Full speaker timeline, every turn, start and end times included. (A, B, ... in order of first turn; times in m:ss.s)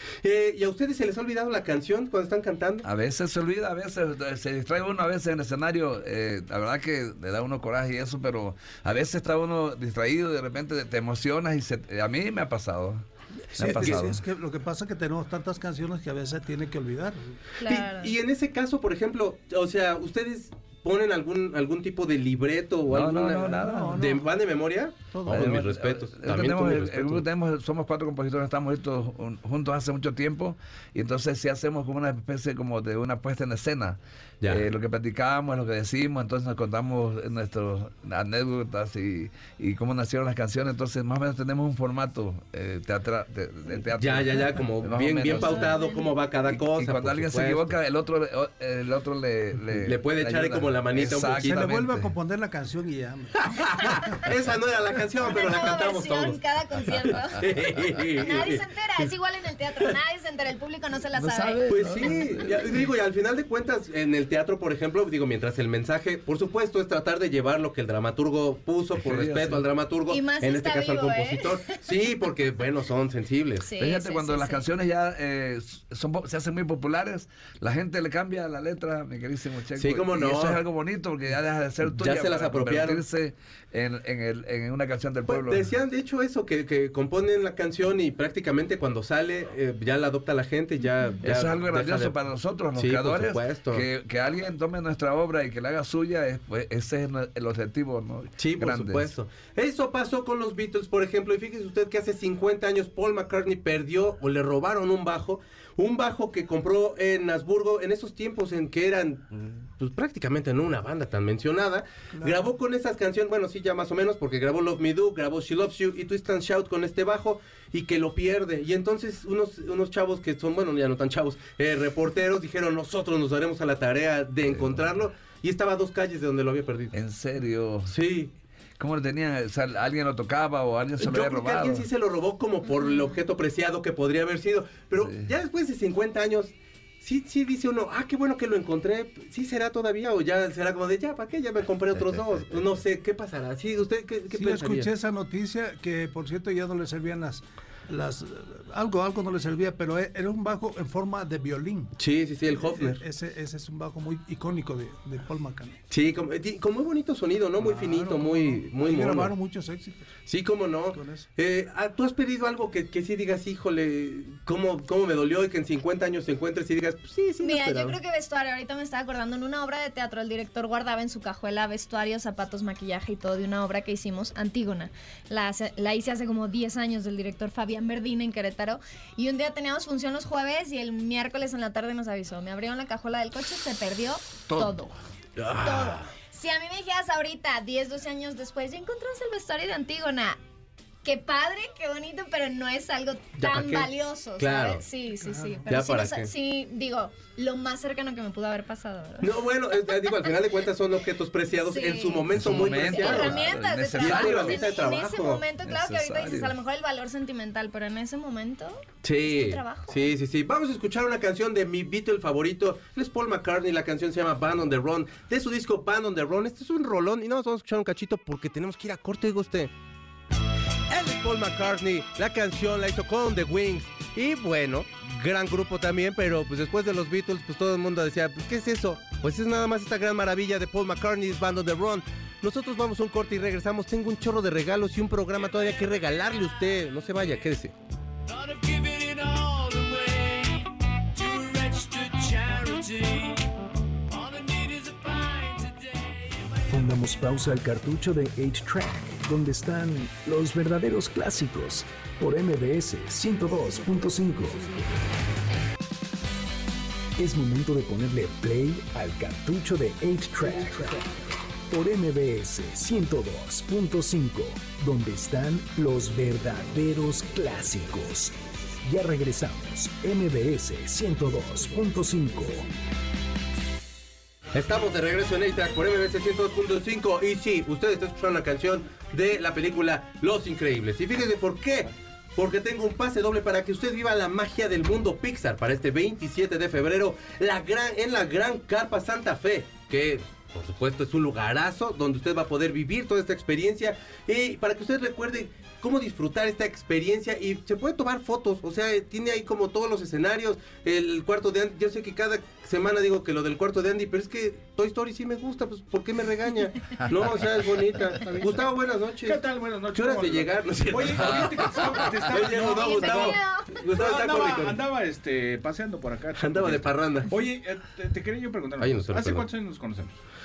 0:00.2-0:02.8 A
0:02.8-0:13.0 B
0:13.5-0:14.2 B
0:13.6-0:17.4 C
0:17.6-0:18.1 D
0:17.6-0:27.2 A
0:22.9-0:24.0 B
0:23.5-0:24.3 C
0:25.1-0:25.6 C
0:25.3-0:45.8 B
0:34.4-0:34.6 A
0:44.0-0:47.7 A
0:45.3-0:46.0 D
0:46.5-0:52.1 B
0:49.8-0:51.6 A
0:51.5-0:54.2 C
0:53.4-0:58.6 A
0:55.3-0:57.5 D
0:58.2-1:01.9 D
1:01.1-1:02.7 B
1:01.7-1:13.7 A
1:09.0-1:09.6 B
1:10.1-1:11.8 D
1:13.6-1:14.6 D
1:13.8-1:25.7 B
1:19.8-1:20.6 A
1:21.9-1:23.0 A
1:25.3-1:32.1 A
1:31.2-1:39.1 B
1:32.8-1:33.8 A
1:38.4-2:06.9 A
1:52.1-1:52.5 C
2:06.9-2:07.9 B
2:07.9-2:08.3 A
2:08.8-2:11.9 B
2:11.0-2:24.9 A
2:15.0-2:15.3 B
2:24.3-2:31.9 C
2:32.0-2:33.0 A
2:32.5-2:35.8 C
2:35.9-2:39.3 A
2:37.6-2:40.1 C
2:40.2-2:48.0 A
2:40.9-2:41.2 C
2:47.4-3:04.9 D
3:05.4-3:06.1 A
3:05.6-3:10.4 D
3:11.0-3:19.4 D
3:13.4-3:14.8 A
3:15.2-3:15.7 C
3:15.7-3:16.3 A
3:19.2-3:23.4 A
3:21.6-3:30.1 D
3:22.3-3:24.7 B
3:24.0-3:25.4 A
3:25.6-3:26.6 B
3:29.0-3:39.7 A
3:40.9-3:57.7 A
3:58.3-4:03.5 E
4:04.1-4:06.6 E
4:06.7-4:14.8 F
4:17.2-4:21.1 F
4:21.7-4:32.7 F
4:34.5-5:14.8 A
5:08.2-5:08.6 E
5:09.2-5:20.2 E
5:11.2-5:11.6 B
5:12.7-5:13.8 D
5:16.4-5:17.3 A
5:18.8-5:19.5 A